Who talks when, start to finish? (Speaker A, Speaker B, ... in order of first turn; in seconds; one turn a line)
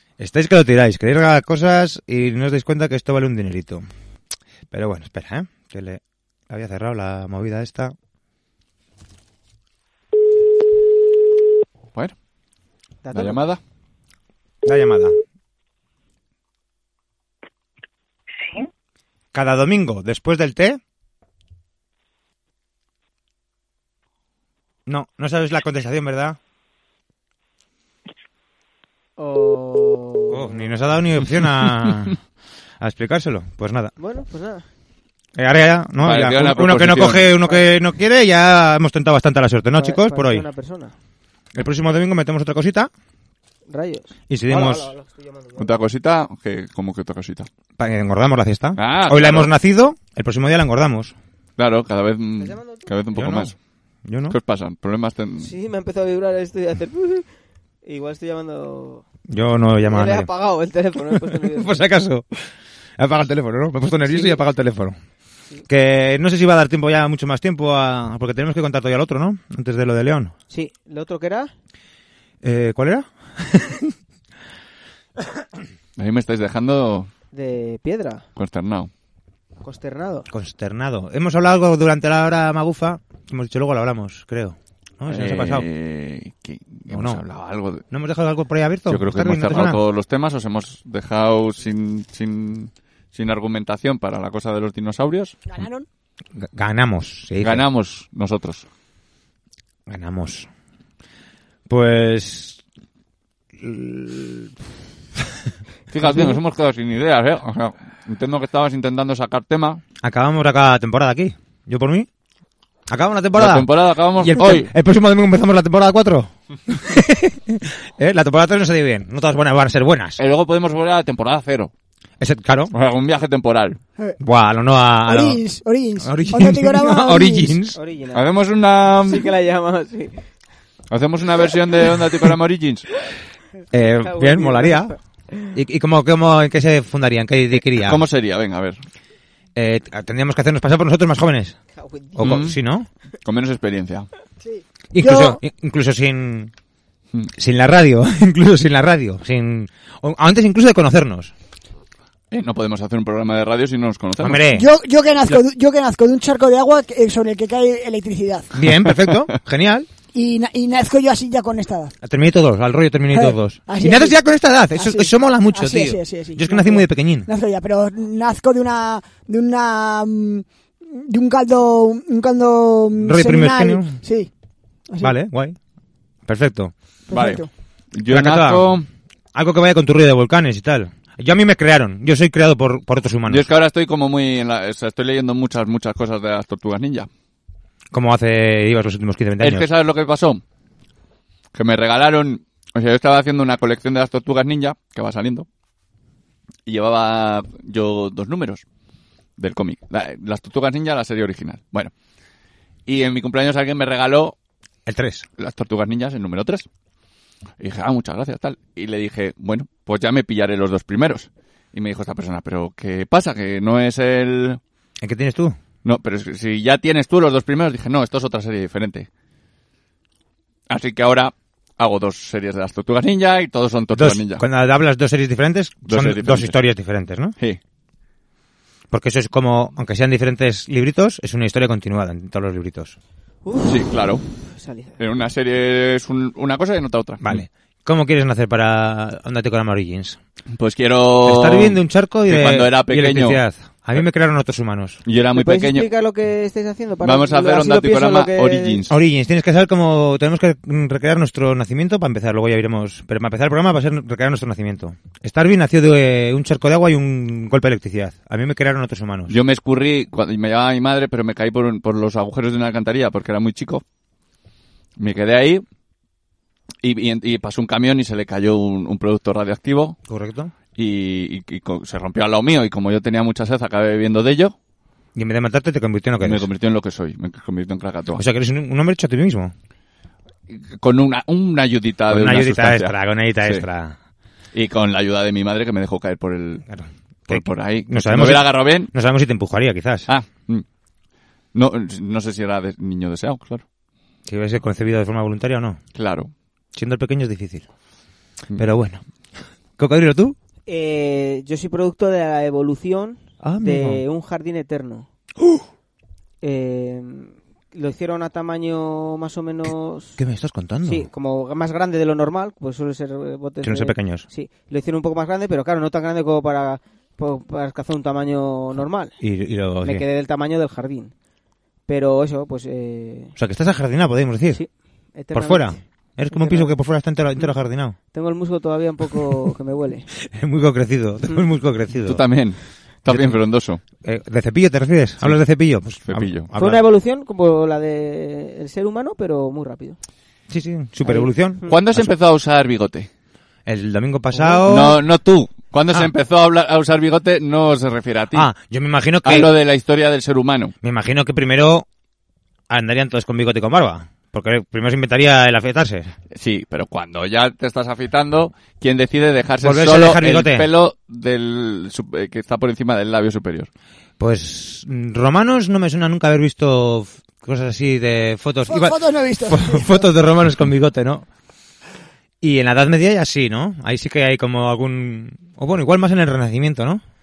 Speaker A: 0.2-3.9
Speaker A: 4.7-8.0
Speaker B: 13.1-13.4
Speaker C: 13.1-13.6
Speaker A: 14.7-15.2
Speaker A: 19.3-20.8
Speaker A: 24.9-26.4
Speaker B: 29.2-30.7
Speaker A: 30.3-32.2
Speaker A: 32.8-33.9
Speaker B: 34.0-34.7
Speaker A: 35.4-40.5
Speaker C: 36.0-37.3
Speaker B: 37.4-37.7
Speaker B: 39.8-40.9
Speaker A: 41.5-42.9
Speaker B: 43.7-45.7
Speaker A: 44.3-44.9
Speaker C: 45.6-47.5
Speaker A: 47.8-51.1
Speaker C: 48.8-49.5
Speaker C: 51.6-53.5
Speaker B: 52.4-52.9
Speaker A: 53.1-53.5
Speaker A: 54.1-54.4
Speaker C: 54.3-55.5
Speaker B: 55.4-57.3
Speaker B: 57.8-59.1
Speaker A: 59.3-60.3
Speaker B: 59.9-61.8
Speaker A: 61.1-62.3
Speaker A: 63.0-65.0
Speaker B: 64.1-64.4
Speaker A: 65.7-70.3
Speaker B: 70.5-71.5
Speaker A: 72.4-73.9
Speaker C: 76.0-77.1
Speaker B: 77.3-78.2
Speaker C: 78.4-78.9
Speaker B: 79.6-80.3
Speaker A: 80.3-85.7
Speaker C: 85.1-87.8
Speaker A: 86.9-87.2
Speaker A: 87.9-89.8
Speaker C: 88.9-95.4
Speaker D: 95.5-95.9
Speaker A: 96.4-97.6
Speaker C: 97.4-98.7
Speaker A: 99.9-100.5
Speaker A: 101.7-102.6
Speaker A: 103.6-104.5
Speaker C: 105.9-109.8
Speaker A: 106.1-106.3
Speaker A: 110.0-112.1
Speaker A: 112.9-120.2
Speaker C: 113.3-114.7
Speaker C: 120.2-121.7
Speaker A: 122.2-122.7
Speaker C: 122.7-123.8
Speaker A: 124.2-125.4
Speaker D: 125.1-127.6
Speaker A: 126.0-127.8
Speaker B: 127.8-128.3
Speaker C: 128.1-129.3
Speaker B: 129.0-130.2
Speaker C: 130.9-132.9
Speaker A: 133.7-134.9
Speaker B: 134.0-135.0
Speaker A: 135.5-138.0
Speaker C: 137.7-138.8
Speaker A: 139.6-141.6
Speaker B: 141.8-142.4
Speaker A: 142.2-142.9
Speaker C: 142.2-142.6
Speaker C: 143.2-144.1
Speaker D: 144.4-145.4
Speaker A: 144.9-146.5
Speaker A: 147.4-151.3
Speaker C: 152.3-154.4
Speaker A: 154.2-154.7
Speaker D: 154.5-158.5
Speaker A: 158.5-159.9
Speaker D: 160.1-161.9
Speaker A: 162.0-167.3
Speaker D: 163.1-164.1
Speaker D: 164.8-174.3
Speaker A: 173.0-174.0
Speaker D: 174.9-175.1
Speaker A: 175.0-175.6
Speaker A: 176.3-176.7
Speaker D: 177.1-177.5
Speaker C: 177.1-178.9
Speaker A: 178.1-178.7
Speaker A: 179.3-183.5
Speaker C: 183.3-187.1
Speaker A: 187.9-189.7
Speaker C: 189.4-190.4
Speaker C: 191.5-195.5
Speaker C: 196.7-198.6
Speaker C: 199.4-201.9
Speaker C: 202.9-204.3
Speaker A: 204.9-205.3
Speaker C: 205.4-206.7
Speaker C: 207.6-214.6
Speaker A: 215.0-215.6
Speaker C: 215.8-219.1
Speaker C: 220.7-224.4
Speaker A: 223.9-227.3
Speaker C: 225.9-226.6
Speaker A: 228.9-233.0
Speaker B: 233.4-235.0
Speaker C: 233.7-234.2
Speaker C: 235.0-237.3
Speaker A: 237.2-240.2
Speaker C: 240.5-243.4
Speaker A: 241.2-245.0
Speaker C: 245.1-245.9
Speaker B: 245.3-248.8
Speaker C: 247.0-248.9
Speaker A: 248.9-259.4
Speaker C: 259.3-263.8
Speaker C: 265.0-265.6
Speaker C: 266.8-270.0
Speaker A: 270.1-270.5
Speaker C: 270.8-274.6
Speaker A: 275.1-276.5
Speaker C: 276.2-278.2
Speaker A: 278.2-279.5
Speaker C: 280.5-283.6
Speaker A: 282.1-284.0
Speaker C: 284.5-286.7
Speaker A: 286.7-290.1
Speaker C: 287.3-288.9
Speaker C: 290.1-290.6
Speaker C: 291.5-293.6
Speaker A: 294.3-295.8
Speaker C: 295.9-296.3
Speaker A: 296.8-297.7
Speaker A: 298.6-299.0
Speaker A: 299.8-300.4
Speaker B: 300.7-305.1
Speaker A: 303.4-304.0
Speaker B: 306.4-310.2
Speaker A: 310.2-311.1
Speaker B: 310.9-319.2
Speaker A: 313.6-314.3
Speaker A: 319.2-320.1
Speaker B: 319.8-321.1
Speaker B: 321.9-323.4
Speaker A: 323.4-324.6
Speaker B: 324.5-325.8
Speaker A: 325.3-328.0
Speaker B: 326.3-326.8
Speaker B: 328.1-330.1
Speaker A: 330.3-332.2
Speaker C: 332.1-333.8
Speaker A: 333.1-333.4
Speaker A: 334.0-336.8
Speaker C: 336.1-336.5
Speaker B: 336.6-340.0
Speaker A: 340.5-342.1
Speaker B: 341.1-341.8
Speaker C: 341.7-343.1
Speaker A: 343.7-345.0
Speaker C: 344.7-348.5
Speaker A: 348.3-349.5
Speaker C: 349.2-350.7
Speaker A: 350.8-351.9
Speaker A: 352.7-356.1
Speaker C: 356.3-363.7
Speaker A: 359.6-360.7
Speaker A: 364.2-371.3
Speaker D: 368.7-370.0
Speaker A: 372.4-377.0